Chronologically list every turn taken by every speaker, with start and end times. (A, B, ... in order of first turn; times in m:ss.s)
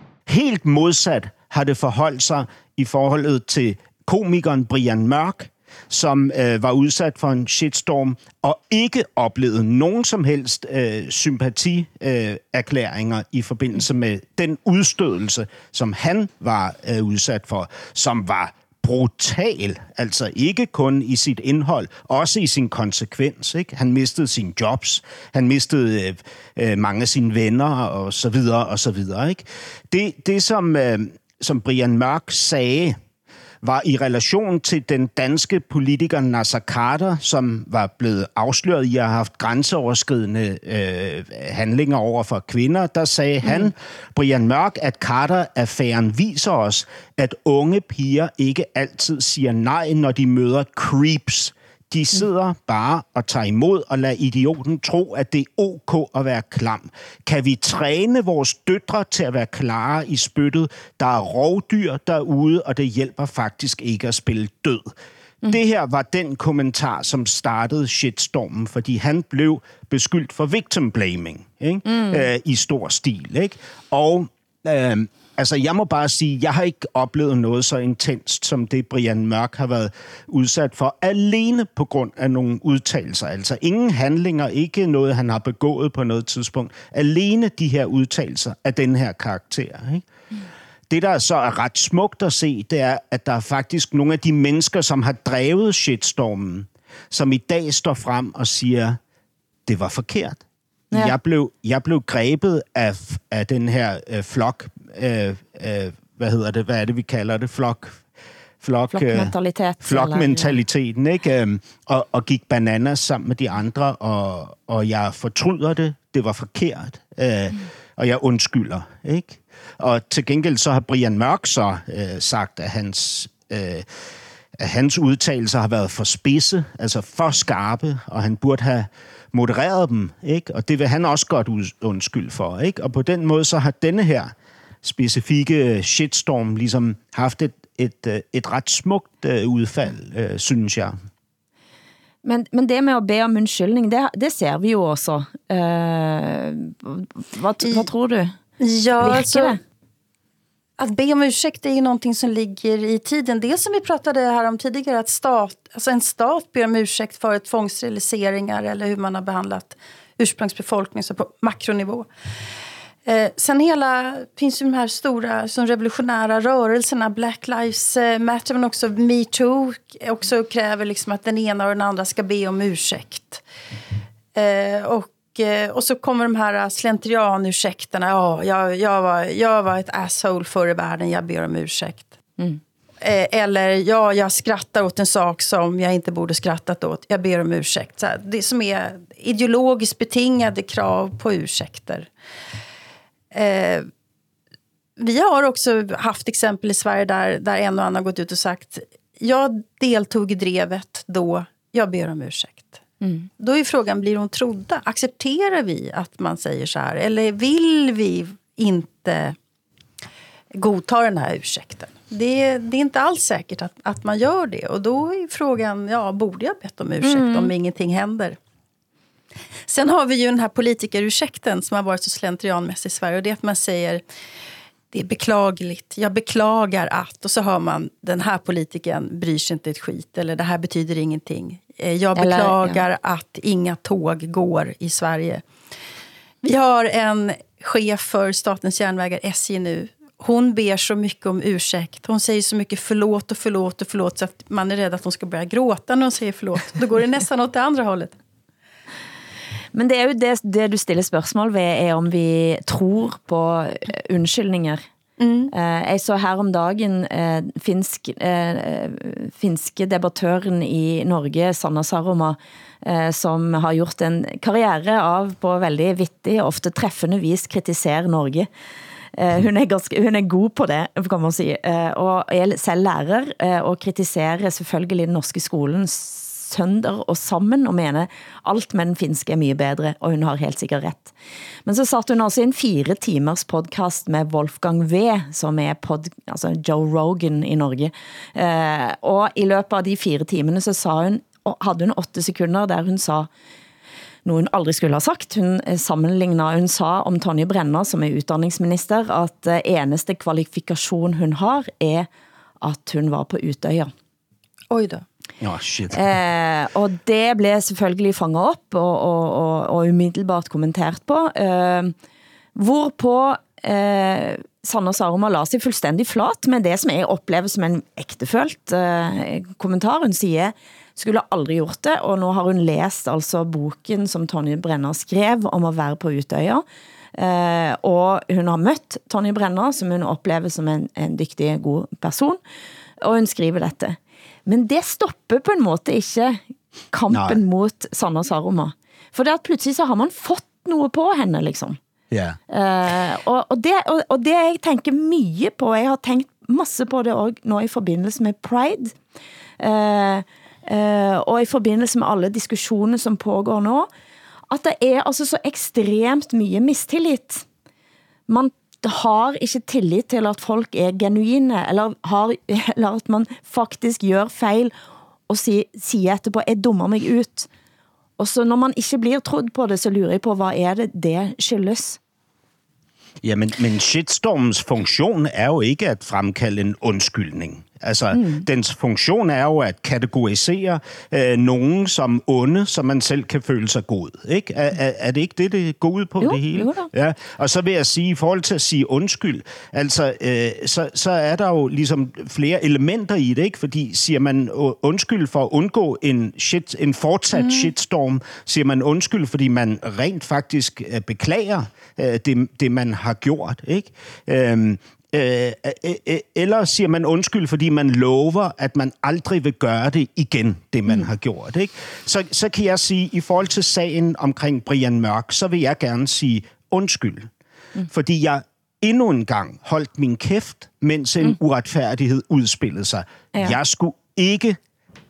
0:00.3-0:33.0 A
0:33.6-1:04.9 A
0:43.4-0:43.7 B
1:05.5-1:30.0 A
1:11.9-1:12.2 B
1:30.9-1:39.0 A
1:39.6-1:40.4 A
1:40.9-1:48.0 A
1:48.6-2:03.9 A
1:48.9-1:50.6 B
2:04.6-2:21.0 A
2:22.2-2:28.4 B
2:27.6-2:27.9 C
2:28.6-2:29.6 C
2:29.0-2:29.6 B
2:30.8-2:42.1 C
2:43.0-2:53.4 C
2:54.3-3:02.2 C
3:03.0-3:12.1 C
3:13.3-3:13.9 C
3:15.0-3:22.8 C
3:23.0-3:23.3 B
3:23.4-3:29.4 C
3:30.5-3:38.4 C
3:37.0-3:37.5 B
3:39.7-3:44.0 C
3:44.9-3:55.4 C
3:52.2-3:52.8 B
3:56.4-4:08.1 C
4:09.7-4:14.8 B
4:15.2-4:15.5 C
4:15.5-4:28.5 B
4:29.2-4:41.1 B
4:41.6-4:53.3 B
4:54.2-5:02.1 B
5:02.6-5:03.9 B
5:04.7-5:05.0 C
5:05.4-5:06.0 A
5:05.9-5:11.9 B
5:12.6-5:26.6 B
5:27.2-5:32.4 B
5:33.0-5:36.4 B
5:36.9-5:41.8 B
5:37.1-5:37.4 A
5:42.1-5:42.4 A
5:42.5-5:48.9 B
5:49.6-5:53.9 B
5:54.5-5:57.4 B
5:58.3-6:04.7 B
6:05.3-6:07.5 B
6:08.2-6:12.0 B
6:13.2-6:57.3 A
6:18.1-6:18.4 B
6:26.2-6:26.9 B
6:37.3-6:37.7 C
6:57.9-7:04.6 A